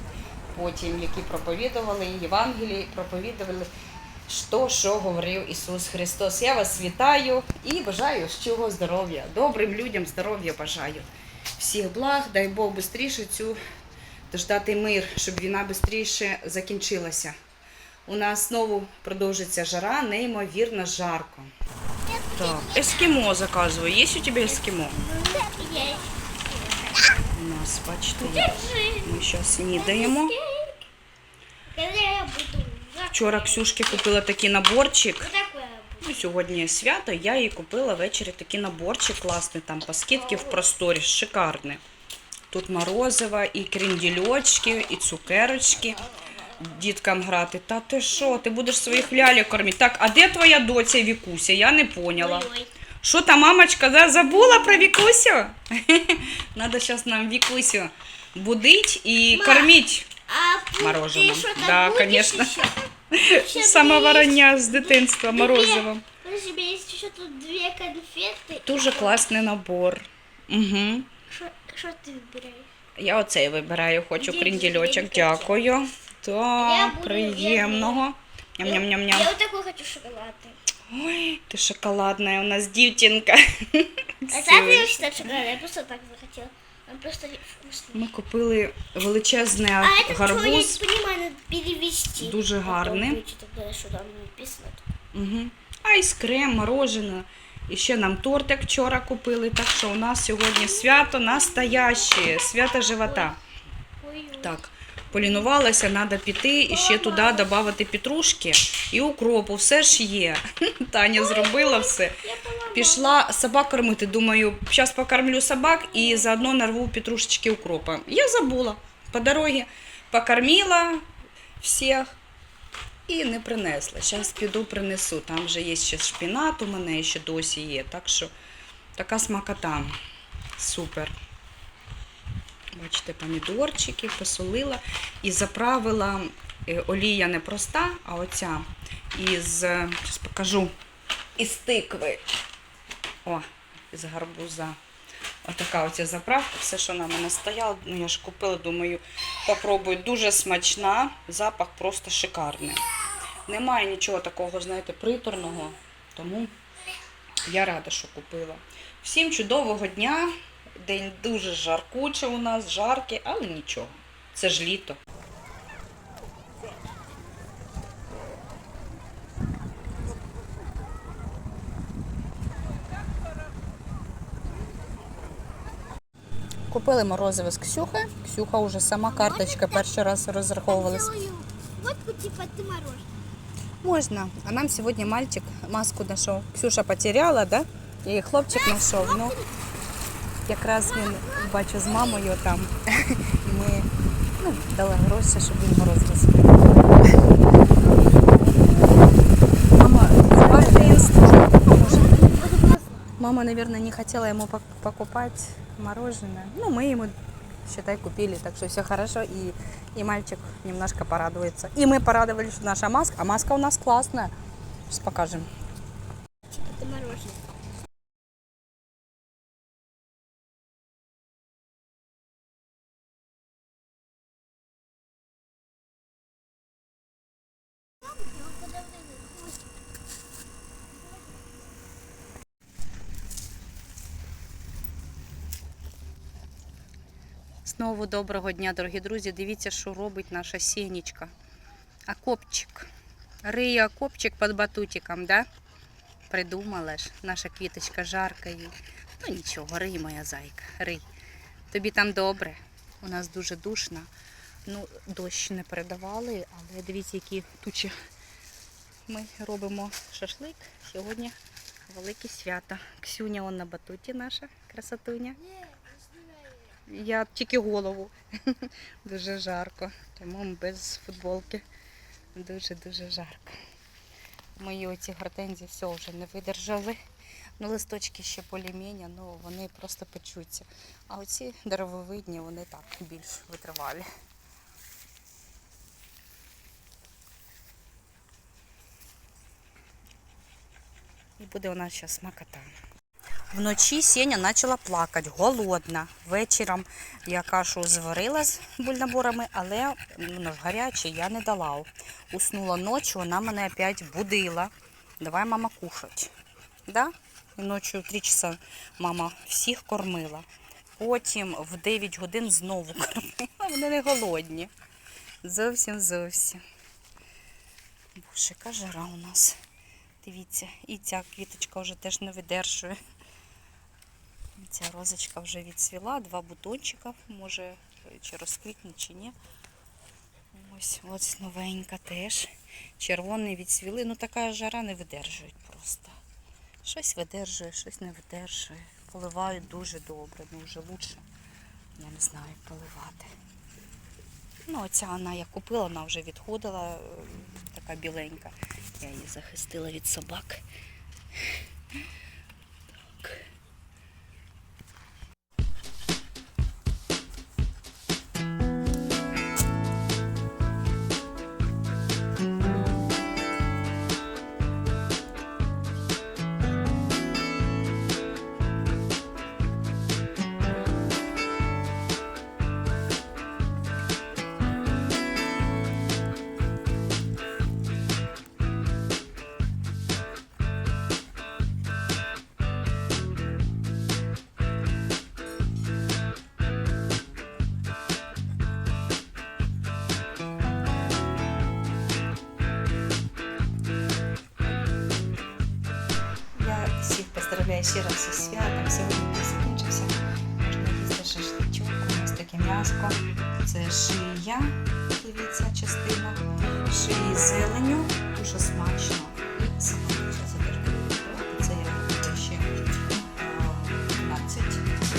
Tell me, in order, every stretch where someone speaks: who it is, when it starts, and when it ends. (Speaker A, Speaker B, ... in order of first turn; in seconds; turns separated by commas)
Speaker A: 0.5-3.7, Speaker A: 4.3-13.6, Speaker A: 14.3-17.4, Speaker A: 18.1-21.5, Speaker B: 22.1-23.3, Speaker A: 22.3-25.0, Speaker B: 24.4-27.4, Speaker A: 27.3-30.3, Speaker B: 28.2-30.8, Speaker B: 31.7-34.1, Speaker A: 33.1-35.3, Speaker B: 35.2-36.3, Speaker A: 36.0-41.8, Speaker B: 40.1-40.7, Speaker A: 42.5-46.0, Speaker B: 45.6-46.6, Speaker A: 46.5-52.5, Speaker B: 52.1-52.7, Speaker A: 53.0-60.1, Speaker B: 54.3-54.9, Speaker B: 59.3-69.3, Speaker A: 60.8-66.0, Speaker A: 68.6-71.1, Speaker B: 71.3-72.7, Speaker A: 73.0-79.3, Speaker B: 74.2-75.6, Speaker B: 76.6-78.0, Speaker B: 78.6-80.6, Speaker A: 80.9-85.4, Speaker B: 84.3-88.0, Speaker A: 87.9-90.8, Speaker B: 89.8-94.8, Speaker A: 92.2-93.2, Speaker A: 95.1-103.4, Speaker B: 100.6-103.3, Speaker B: 104.0-104.6, Speaker A: 104.4-121.0, Speaker B: 105.1-105.5, Speaker B: 106.6-107.6, Speaker B: 111.1-113.2, Speaker B: 115.7-116.5, Speaker A: 121.6-122.1, Speaker A: 123.1-128.3, Speaker A: 128.9-129.9, Speaker A: 130.6-131.1, Speaker A: 132.7-140.7, Speaker A: 141.4-142.2, Speaker A: 143.2-144.8, Speaker A: 145.4-152.8, Speaker A: 153.4-156.5, Speaker A: 157.4-165.0, Speaker A: 176.7-181.1, Speaker B: 179.1-179.9, Speaker B: 180.7-183.1, Speaker A: 183.8-189.3, Speaker B: 188.4-189.5, Speaker A: 190.4-197.3, Speaker B: 190.9-192.3, Speaker B: 198.1-198.7, Speaker A: 199.7-202.3, Speaker B: 200.5-202.9, Speaker A: 203.2-207.1, Speaker A: 207.6-214.3, Speaker A: 214.9-215.5, Speaker B: 216.5-217.4, Speaker B: 228.2-229.3, Speaker A: 237.6-241.3, Speaker A: 242.1-242.9, Speaker A: 243.4-245.5, Speaker A: 246.3-251.0, Speaker A: 251.7-254.1, Speaker A: 254.7-257.9, Speaker A: 259.1-261.4, Speaker A: 261.9-265.4, Speaker A: 266.9-271.6, Speaker A: 272.3-273.6, Speaker A: 274.6-277.0, Speaker A: 277.6-284.1, Speaker A: 291.4-292.7, Speaker A: 293.5-306.3, Speaker A: 306.9-310.4, Speaker A: 311.0-314.7, Speaker A: 315.4-316.6, Speaker A: 318.1-319.6, Speaker A: 320.2-323.0, Speaker A: 324.6-329.3, Speaker A: 330.5-336.1, Speaker A: 336.8-341.2, Speaker A: 342.0-343.3, Speaker A: 344.7-350.6, Speaker A: 353.1-353.4, Speaker A: 396.5-412.7, Speaker A: 413.4-414.9